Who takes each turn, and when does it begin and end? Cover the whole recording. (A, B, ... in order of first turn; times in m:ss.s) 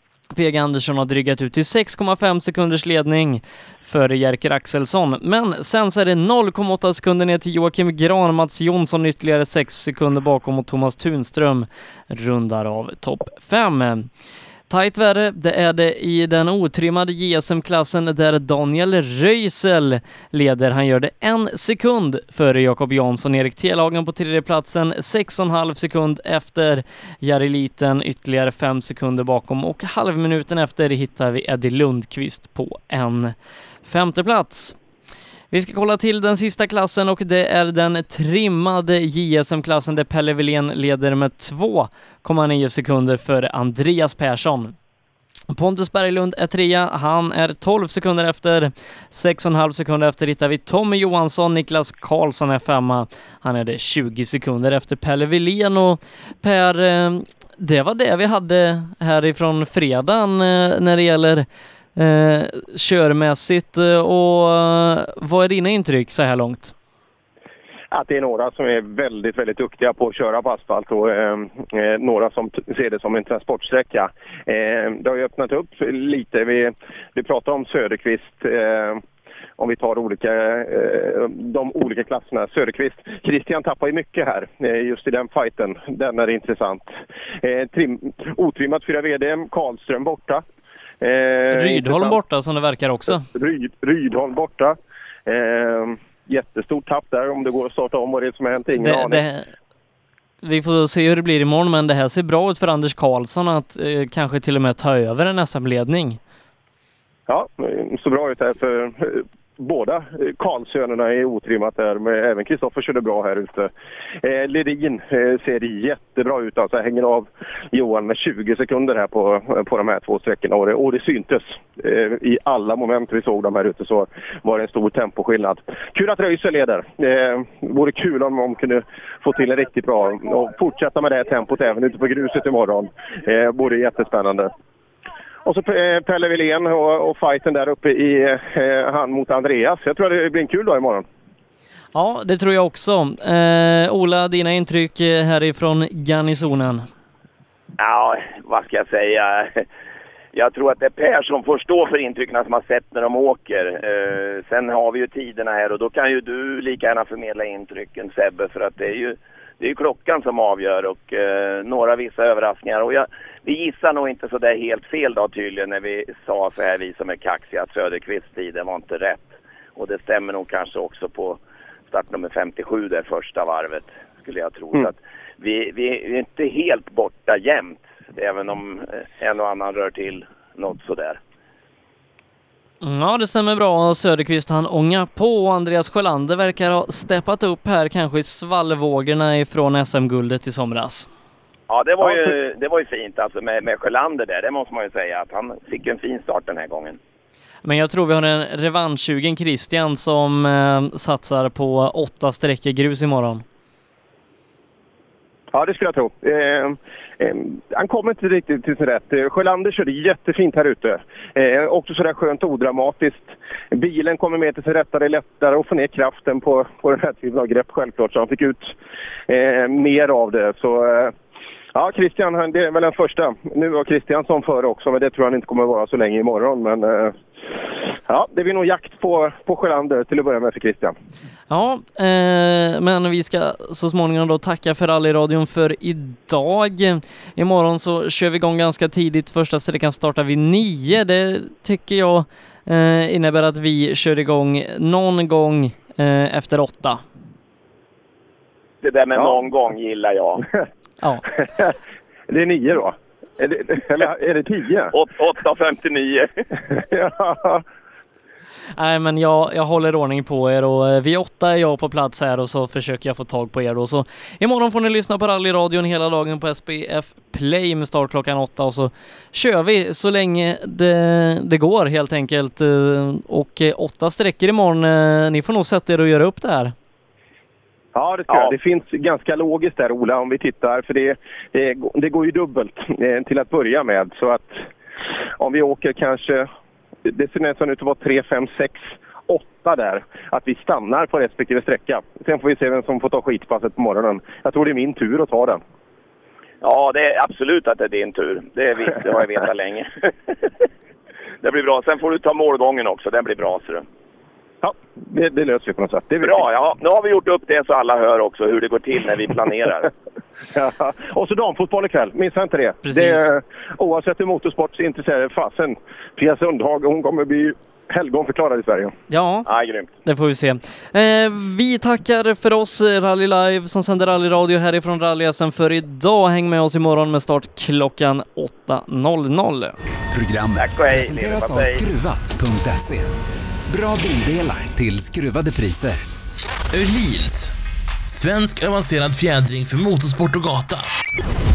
0:00.3-0:14.1 A
0:14.7-0:34.8 A
0:35.5-0:44.7 A
0:45.5-1:06.7 A
1:07.9-1:19.0 B
1:19.6-1:30.4 B
1:31.0-1:32.2 B
1:31.5-1:33.2 A
1:33.1-1:39.2 B
1:38.7-1:39.5 A
1:40.4-1:46.2 A
1:47.3-1:53.7 B
1:54.2-2:14.5 B
2:15.4-2:21.0 B
2:21.9-2:26.8 A
2:27.8-2:29.6 C
2:30.3-3:01.2 C
3:02.8-3:11.1 A
3:11.7-3:17.0 C
3:12.0-3:12.3 B
3:17.6-3:23.4 A
3:25.5-3:38.7 B
3:39.3-3:41.1 B
3:41.7-3:47.2 B
3:48.1-3:50.9 B
3:51.5-4:07.0 A
4:08.8-4:10.4 C
4:09.1-4:09.4 B
4:11.4-4:11.7 B
4:12.3-4:14.9 B
4:14.9-4:16.3 C
4:16.7-4:17.6 B
4:18.7-4:36.7 A
4:37.9-4:44.7 B
4:45.4-4:46.5 B
4:47.0-4:55.6 B
4:56.6-5:00.4 C
5:01.4-5:03.8 C
5:04.6-5:06.4 B
5:06.2-5:09.9 C
5:10.5-5:18.9 B
5:12.8-5:13.2 A
5:19.1-5:19.5 A
5:19.5-5:19.9 C
5:20.0-5:29.8 A
5:30.1-5:33.1 D
5:30.6-5:31.8 C
5:33.7-5:36.0 D
5:36.7-5:37.5 E
5:38.0-5:40.9 E